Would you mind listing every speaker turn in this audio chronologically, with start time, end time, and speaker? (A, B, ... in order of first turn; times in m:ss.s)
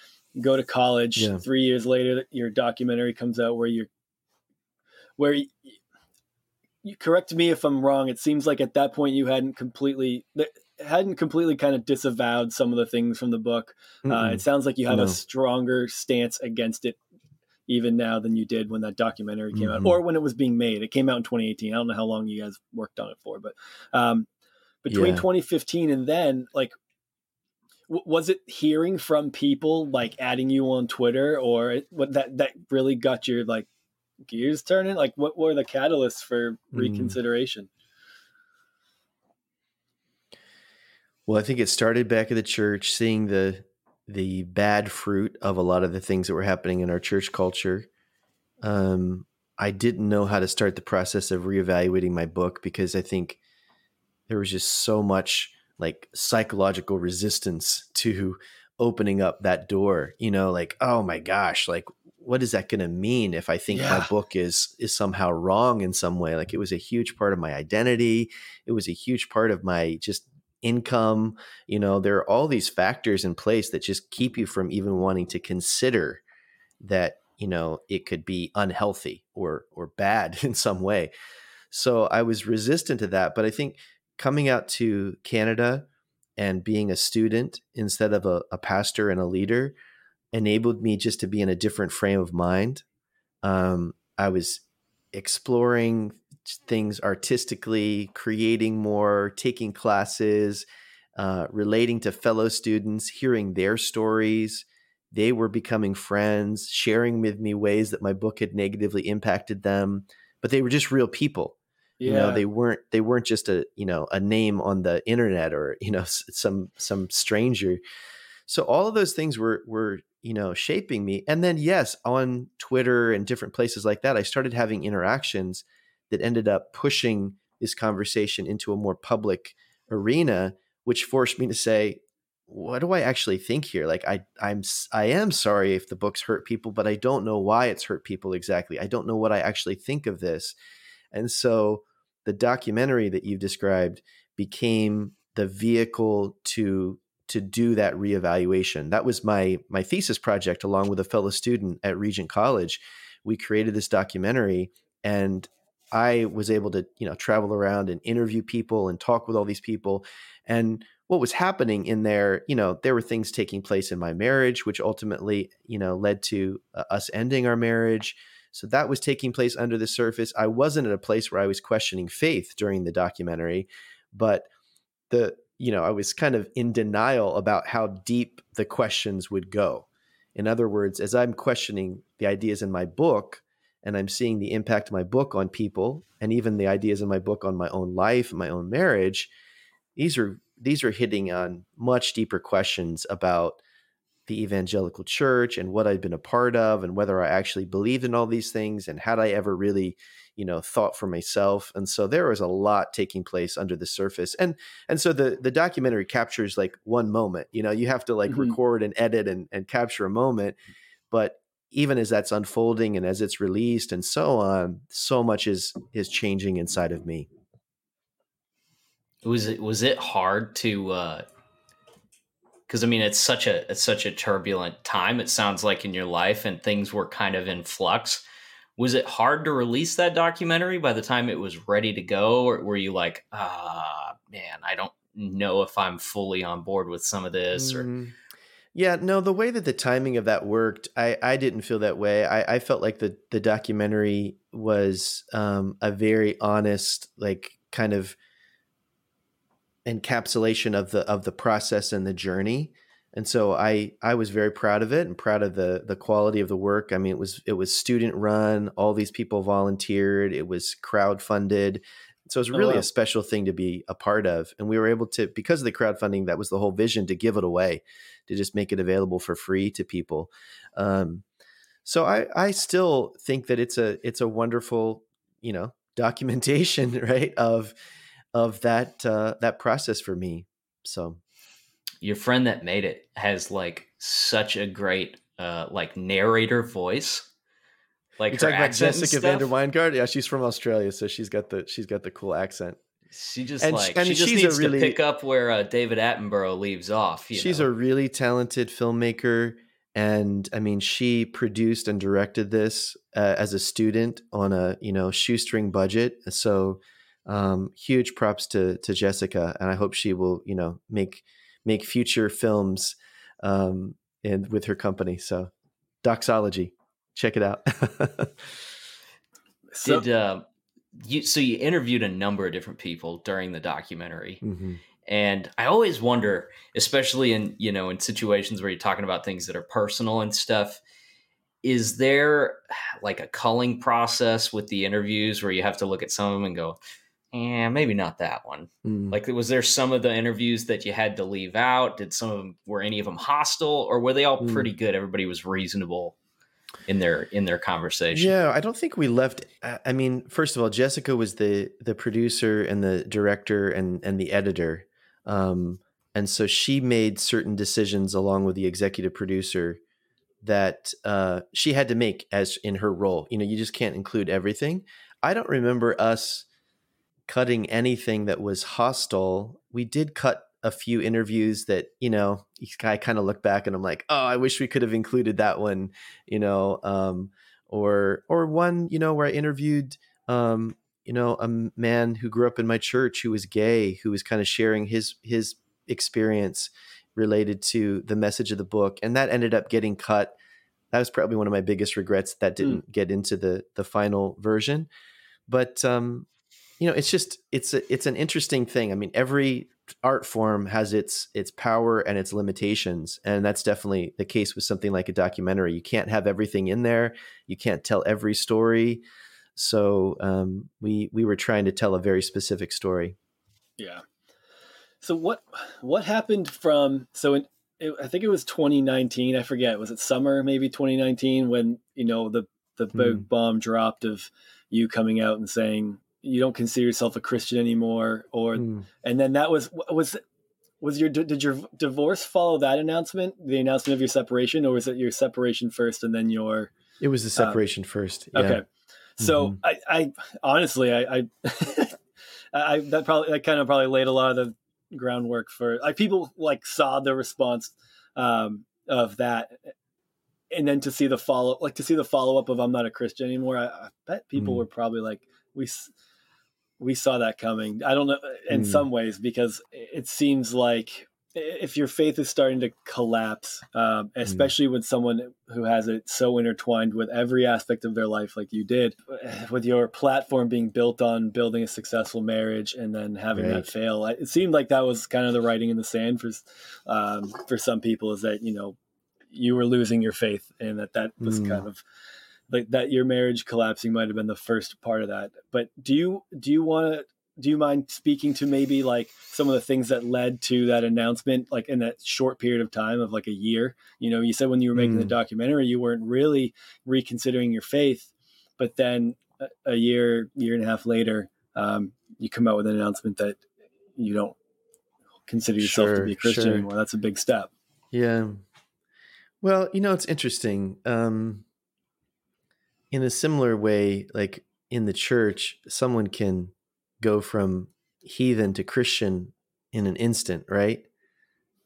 0:00.3-0:03.9 A
0:01.2-0:01.4 B
0:05.2-0:05.8 A
0:06.8-0:17.0 A
0:14.0-0:15.2 B
0:17.7-0:24.3 A
0:19.5-0:20.0 B
0:24.8-0:26.7 A
0:24.9-0:25.2 B
0:27.9-0:33.7 A
0:34.3-0:37.7 A
0:36.7-0:37.2 B
0:41.3-0:47.9 B
0:48.6-0:53.4 B
0:54.3-1:16.2 B
1:03.7-1:04.1 A
1:16.8-1:21.1 B
1:21.7-1:29.7 B
1:30.3-1:32.8 B
1:33.4-1:40.6 B
1:41.2-1:57.8 B
1:52.0-1:52.4 A
1:58.5-2:20.6 B
2:21.1-2:54.5 B
2:55.1-3:09.3 B
3:10.0-3:13.6 B
3:14.3-3:30.6 B
3:28.3-3:28.6 A
3:31.1-3:37.3 B
3:39.2-3:41.2 C
3:42.7-3:48.2 C
3:48.8-3:57.9 C
3:57.5-3:58.1 B
3:58.7-4:08.2 B
4:09.8-4:31.2 B
4:22.5-4:22.8 A
4:31.8-4:37.7 B
4:38.3-4:41.2 B
4:42.0-4:47.3 C
4:48.2-4:49.5 C
4:48.3-4:52.8 B
4:53.1-4:57.7 C
4:53.6-4:55.0 B
4:57.3-5:15.5 B
5:16.0-5:18.5 B
5:19.7-5:20.0 A
5:19.8-5:24.4 C
5:24.4-5:24.8 B
5:25.0-5:30.8 C
5:31.6-5:36.8 C
5:37.3-5:46.2 C
5:38.8-5:39.2 B
5:44.4-5:44.7 B
5:46.9-5:48.3 C
5:48.1-5:59.8 B
6:00.4-6:06.4 B
6:07.3-6:30.4 B
6:30.9-6:34.9 B
6:35.5-6:36.3 B
6:36.8-6:49.0 B
6:49.6-6:53.2 B
6:53.8-6:54.0 A
6:55.0-7:10.2 A
7:02.9-7:03.2 B
7:08.6-7:08.8 B
7:10.8-7:16.7 A
7:17.0-7:18.6 B
7:18.3-7:18.6 A
7:19.2-7:22.0 A
7:19.2-7:19.6 B
7:22.5-7:29.7 A
7:30.5-7:35.9 A
7:34.4-7:34.6 B
7:36.8-7:58.8 A
7:38.5-7:38.8 B
7:44.2-7:44.5 B
7:53.3-7:53.7 B
7:59.3-8:01.8 A
8:01.2-8:01.6 B
8:02.5-8:23.4 A
8:14.7-8:15.1 B
8:24.0-8:24.4 A
8:25.3-8:27.5 A
8:25.6-8:26.7 B
8:27.9-8:28.4 B
8:29.4-8:31.4 B
8:32.9-8:40.8 B